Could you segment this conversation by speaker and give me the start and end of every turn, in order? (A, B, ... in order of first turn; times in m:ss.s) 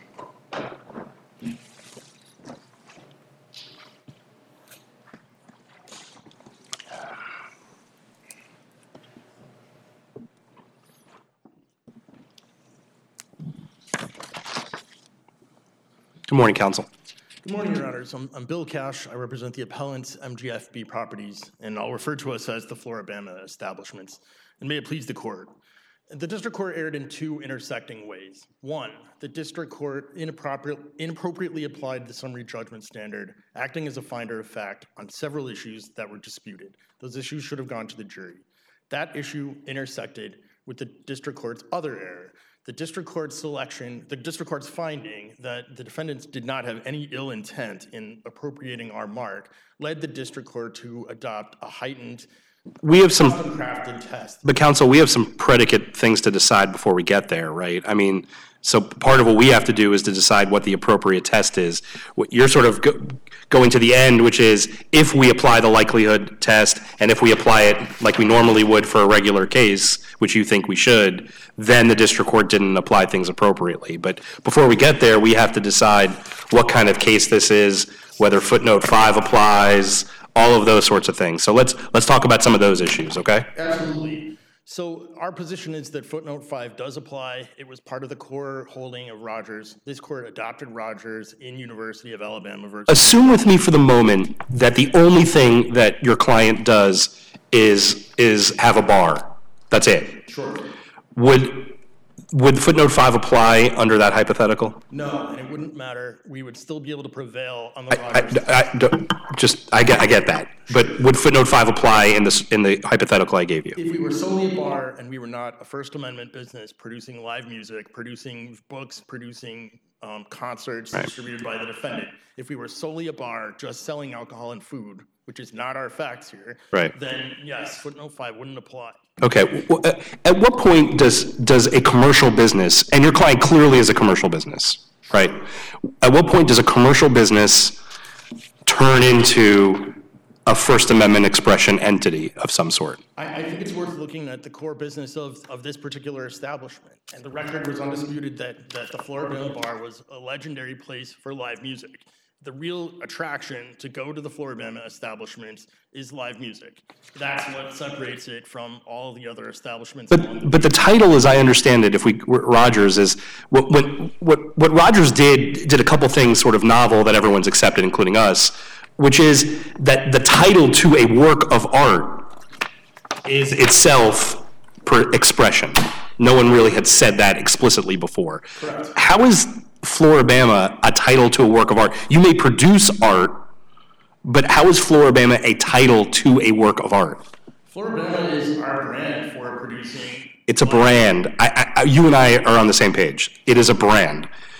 0:16.3-0:16.9 A
0:17.4-0:25.5 B
0:26.1-0:52.3 B
0:52.8-0:53.4 A
0:53.1-0:54.4 B
0:54.4-1:23.5 A
1:23.5-1:33.2 B
1:32.9-1:40.2 A
1:40.3-1:40.7 B
1:41.1-1:41.8 A
1:42.3-1:44.8 A
1:44.9-1:48.5 B
1:47.9-1:53.8 A
1:53.8-2:09.0 B
2:09.2-2:15.4 A
2:16.0-2:17.8 A
2:18.6-2:23.0 A
2:23.2-2:40.6 B
2:40.1-2:52.3 A
2:53.2-3:03.4 A
2:58.6-2:58.9 B
3:04.2-3:07.2 A
3:07.7-3:10.9 B
3:10.5-3:14.3 A